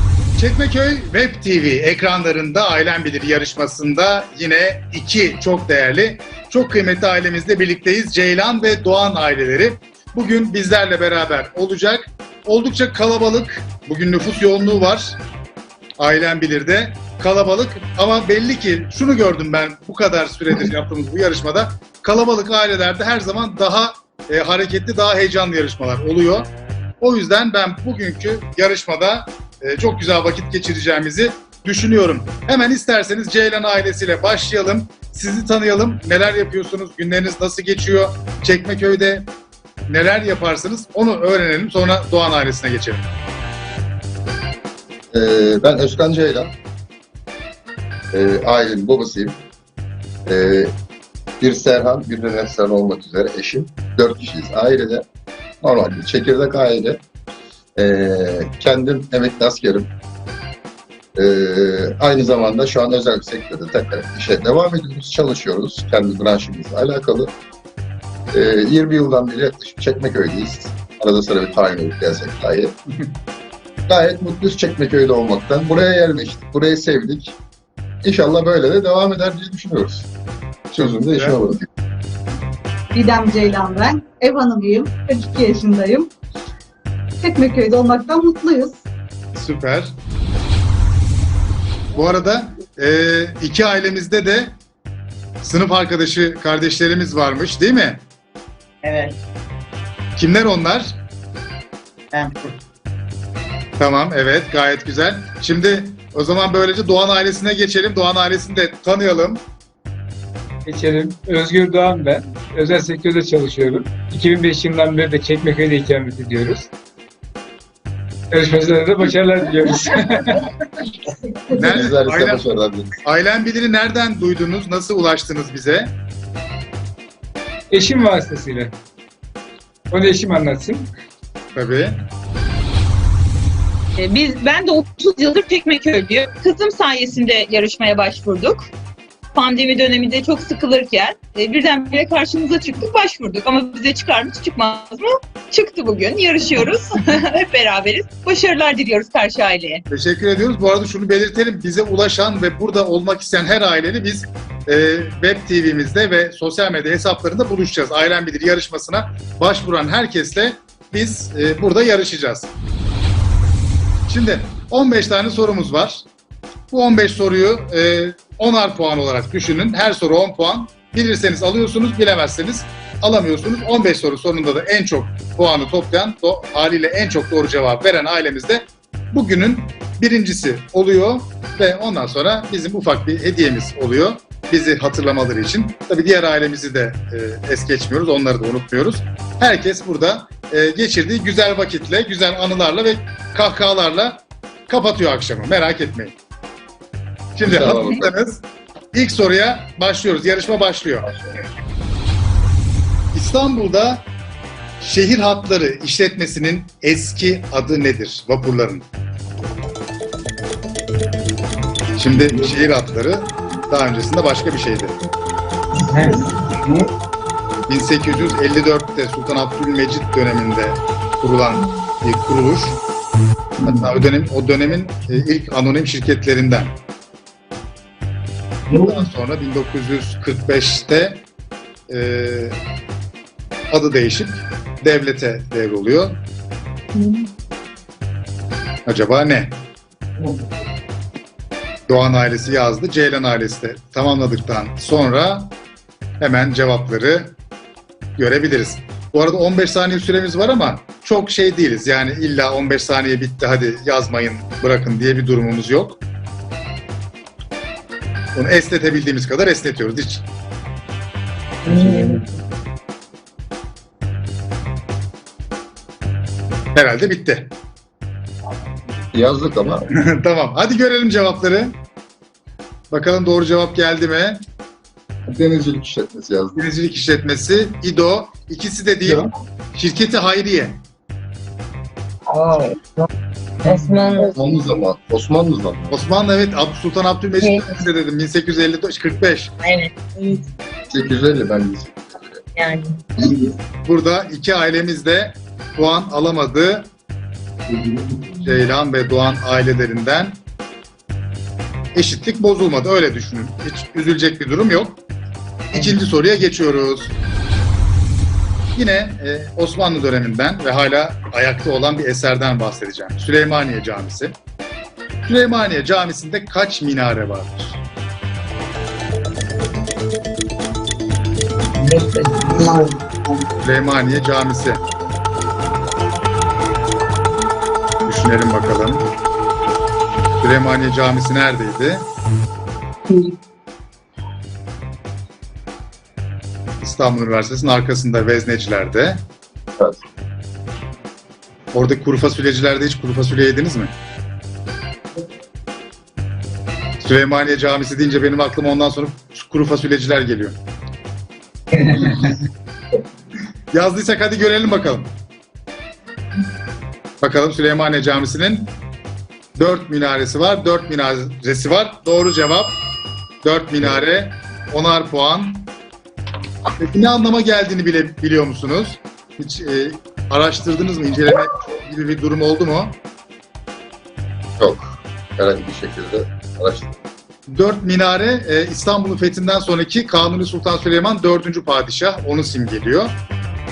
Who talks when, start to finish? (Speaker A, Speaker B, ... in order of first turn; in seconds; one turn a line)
Speaker A: 0.4-15.2
Speaker A: 16.0-39.3
Speaker A: 39.9-43.1
Speaker B: 45.1-46.5
Speaker B: 48.1-49.4
Speaker B: 50.2-50.7
Speaker B: 51.4-55.0
Speaker B: 55.6-57.0
Speaker B: 57.8-59.9
Speaker B: 61.1-67.3
Speaker B: 68.3-72.7
Speaker B: 73.9-77.4
Speaker B: 78.0-80.1
Speaker B: 80.7-81.7
Speaker A: 80.8-81.3
Speaker C: 82.9-86.1
Speaker C: 87.2-88.8
Speaker A: 89.3-89.9
Speaker A: 91.9-94.5
Speaker A: 95.4-98.0
Speaker D: 98.8-99.1
Speaker A: 100.2-100.9
Speaker D: 102.1-102.5
Speaker A: 103.8-109.4
Speaker E: 110.7-116.7
Speaker E: 118.3-120.3
Speaker A: 121.5-122.4
Speaker B: 121.5-122.9
Speaker A: 123.0-125.9
Speaker E: 127.7-128.7
Speaker E: 129.9-130.9
Speaker A: 131.5-132.0
Speaker F: 134.0-138.6
Speaker F: 139.3-149.8
Speaker A: 149.9-162.5
Speaker A: 164.1-166.1
Speaker A: 166.7-196.1
Speaker A: 197.3-201.1
Speaker B: 197.4-198.1
Speaker A: 203.1-204.0
Speaker A: 204.8-208.8
Speaker A: 211.9-214.9
Speaker A: 217.7-222.8
Speaker A: 223.6-226.7
Speaker E: 228.7-229.1
Speaker A: 228.7-231.2
Speaker A: 231.9-232.6
Speaker A: 233.7-236.2
Speaker G: 236.9-237.2
Speaker A: 238.8-239.6
Speaker A: 241.9-245.5
Speaker A: 246.2-247.3
Speaker A: 248.2-256.0
Speaker A: 258.3-260.2
Speaker G: 261.6-262.3
Speaker D: 261.7-262.1
Speaker A: 266.7-267.5
Speaker B: 269.1-269.9
Speaker A: 269.9-271.7
Speaker A: 272.9-274.4
Speaker B: 275.2-276.6
Speaker A: 276.6-280.8
Speaker E: 279.0-279.3
Speaker G: 282.3-282.8
Speaker G: 283.6-284.8
Speaker B: 284.3-286.0
Speaker A: 285.9-289.5
Speaker G: 287.4-287.8
Speaker G: 289.6-290.4
Speaker B: 290.9-292.4
Speaker G: 292.5-293.0
Speaker B: 293.2-293.5
Speaker A: 293.9-296.9
Speaker A: 298.4-300.4
Speaker A: 301.9-305.0
Speaker A: 305.7-307.1
Speaker A: 308.7-314.4
Speaker A: 315.2-317.8
Speaker D: 321.8-322.9
Speaker G: 322.2-323.0
Speaker A: 323.6-324.8
Speaker A: 328.1-329.0
Speaker A: 330.4-332.1
Speaker A: 336.8-339.2
Speaker A: 341.7-343.9
Speaker A: 347.0-350.6
Speaker D: 351.8-352.2
Speaker A: 353.7-355.1
Speaker A: 357.2-358.7
Speaker A: 359.6-362.8
Speaker A: 363.4-365.7
Speaker A: 366.8-372.9
Speaker B: 374.6-376.9
Speaker A: 377.5-383.1